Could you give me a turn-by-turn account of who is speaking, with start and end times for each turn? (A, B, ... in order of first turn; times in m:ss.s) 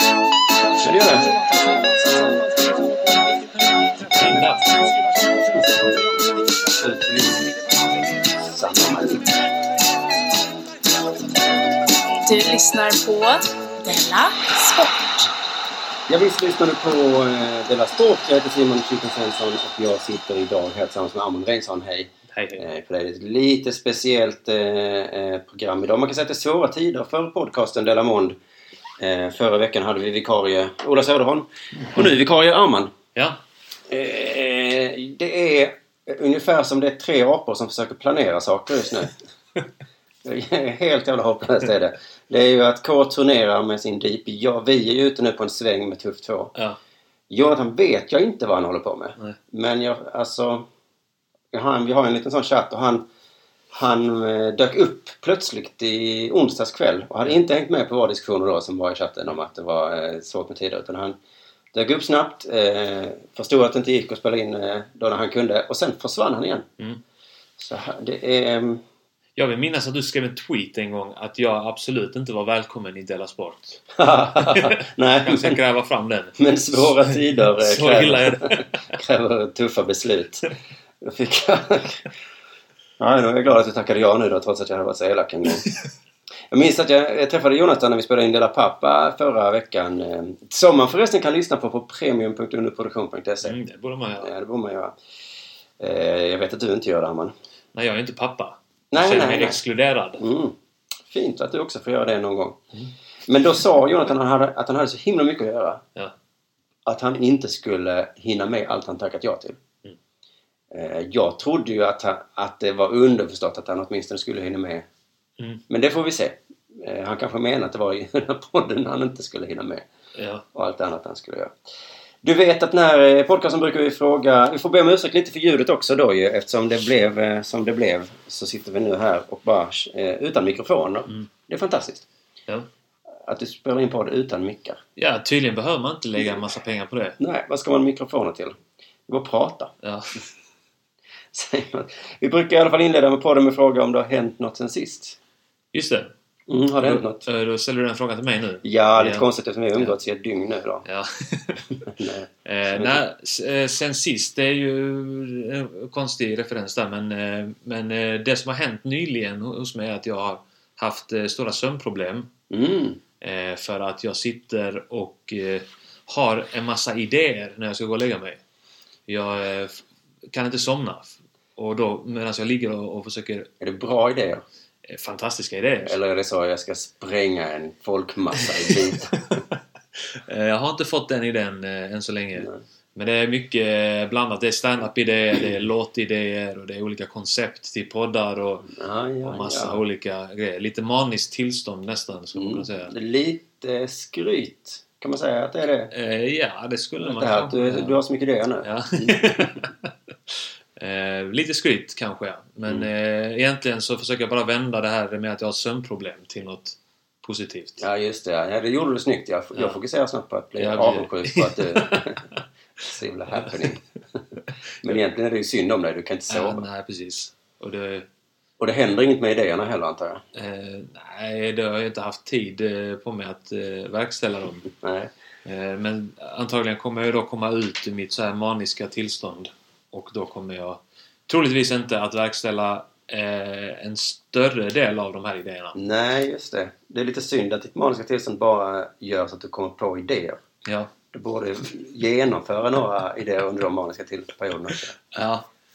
0:00.8-0:01.4 A
0:04.1-0:04.5 A
0:04.2-0:04.6 B
0:06.7-0:07.6 A
0:08.4-0:09.4 A
0:12.2-0:15.3 C
0:16.1-0:28.4 A
0:22.3-0:22.6 B
0:29.0-0:32.9 A
0:33.2-0:33.4 B
0:33.9-0:39.1 A
0:40.2-0:46.5 A
0:47.3-0:50.7 A
0:51.5-0:53.1 A
0:53.7-1:01.2 A
1:01.7-1:06.7 A
1:07.6-1:08.8 A
1:09.4-1:13.8 B
1:14.0-1:15.6 A
1:14.4-1:16.4 B
1:16.4-1:22.1 A
1:17.0-1:18.8 B
1:23.0-1:25.7 A
1:26.5-1:33.6 A
1:33.4-1:34.3 B
1:34.2-1:35.0 A
1:35.8-1:37.3 A
1:37.7-1:40.2 B
1:38.9-1:39.6 A
1:40.2-1:40.6 A
1:41.1-1:42.6 A
1:43.3-1:45.8 A
1:46.9-1:49.6 A
1:50.7-1:54.9 A
1:55.7-1:59.9 A
2:00.2-2:00.4 B
2:00.5-2:01.5 A
2:02.2-2:12.1 A
2:13.3-2:14.8 A
2:15.0-2:17.2 B
2:17.2-2:18.6 A
2:19.1-2:19.7 A
2:19.8-2:20.1 B
2:21.3-2:25.2 A
2:25.7-2:26.1 B
2:26.5-2:27.2 A
2:26.8-2:29.3 B
2:28.6-2:30.8 A
2:30.8-2:31.6 B
2:31.9-2:33.0 A
2:32.4-2:42.3 B
2:42.5-2:43.0 A
2:43.2-2:48.4 B
2:49.1-2:53.5 B
2:53.6-2:54.4 A
2:54.9-2:56.0 B
2:55.8-2:59.4 A
2:58.7-2:59.0 B
3:00.0-3:08.7 B
3:08.7-3:09.8 A
3:09.2-3:12.9 B
3:12.4-3:15.9 A
3:15.9-3:18.0 B
3:17.0-3:19.6 A
3:18.6-3:19.9 B
3:20.8-3:27.8 B
3:27.8-3:33.8 A
3:30.6-3:32.1 B
3:33.3-3:33.6 B
3:34.8-3:36.6 A
3:36.3-3:38.1 B
3:38.6-3:40.2 A
3:40.3-3:44.7 B
3:44.8-3:45.1 A
3:45.4-3:55.8 B
3:55.8-4:00.4 A
4:00.7-4:00.9 B
4:01.1-4:05.0 A
4:05.1-4:05.5 B